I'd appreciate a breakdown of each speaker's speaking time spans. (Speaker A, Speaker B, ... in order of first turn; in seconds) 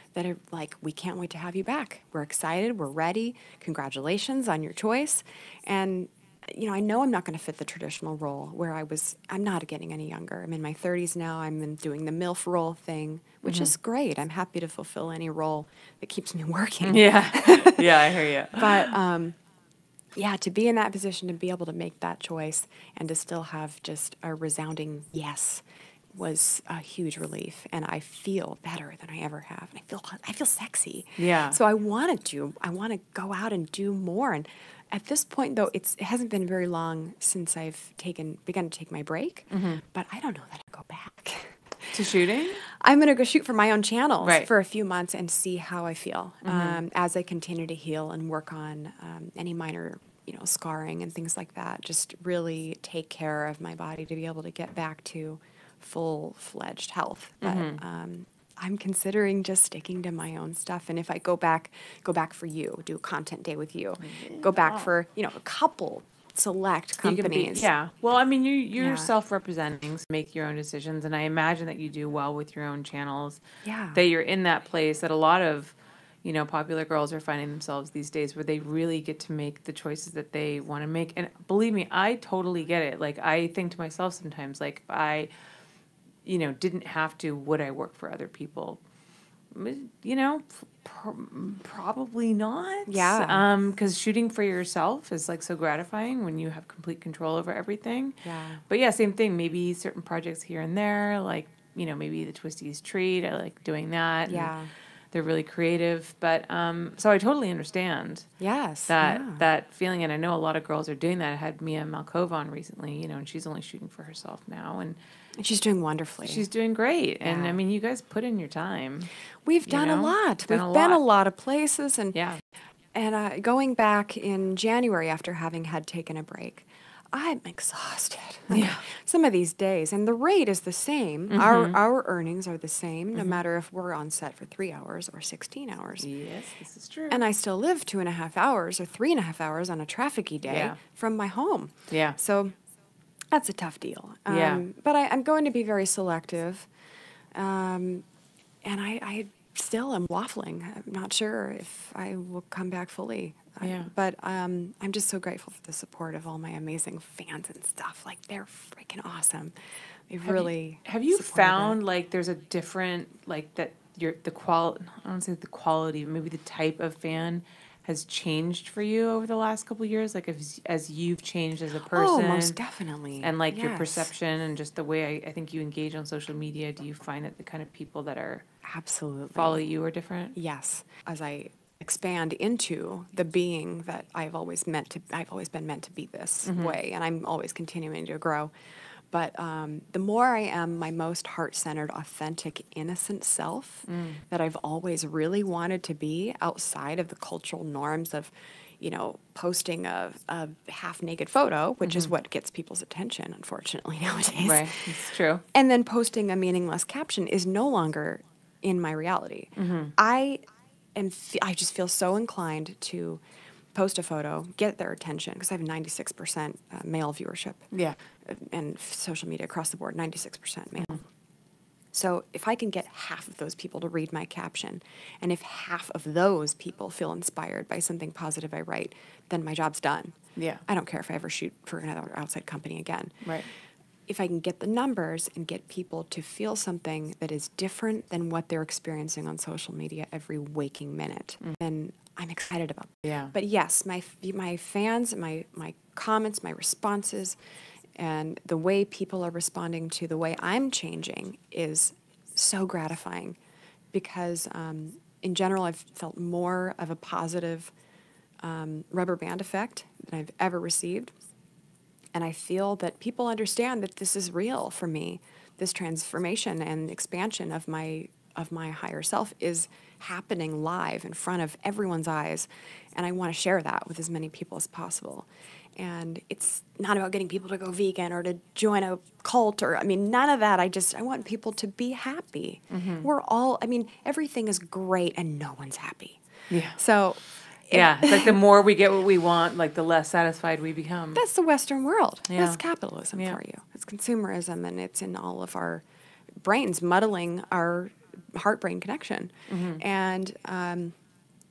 Speaker A: 0.1-19.4, 20.2-25.6, 26.1-67.7, 68.8-69.1, 73.6-74.0, 92.9-93.5, 98.2-98.6, 104.3-104.7, 108.4-109.5, 115.4-116.5, 117.2-117.6, 119.5-122.2, 123.0-136.1, 137.1-142.6, 143.3-146.7, 147.3-148.0, 148.7-159.5, 160.1-161.8, 171.9-174.1, 178.7-179.6, 180.3-188.5, 189.1-204.9, 205.5-210.4, 210.9-213.2, 213.8-217.7, 218.2-221.1, 221.9-233.4, 234.1-247.4, 248.0-253.4, 253.9-257.7, 258.4-261.1, 262.1-286.2, 286.8-288.4, 291.1-295.8, 296.4-301.0
Speaker B: 13.4-13.7, 16.8-18.9, 31.2-31.6, 39.5-39.8, 41.9-42.6, 44.2-44.5, 46.4-46.8, 57.4-57.8, 64.0-64.9, 67.0-73.4, 73.9-85.3, 86.2-88.8, 89.5-104.5, 105.1-108.3, 108.9-115.0, 116.2-119.1, 119.7-121.0, 122.1-122.4, 128.5-128.8, 131.3-131.8, 133.1-133.4, 136.0-137.2, 140.5-140.8, 141.9-142.2, 144.3-144.6, 153.6-153.9, 160.2-172.6, 173.2-178.4, 179.3-180.3, 186.4-186.8, 193.9-194.2, 201.8-202.1, 204.4-205.4, 209.6-209.9, 217.7-218.0, 230.4-230.6, 233.2-233.5, 243.1-243.3, 282.7-283.1, 286.5-286.8, 287.7-291.2, 292.3-292.6, 293.1-293.4, 299.5-299.8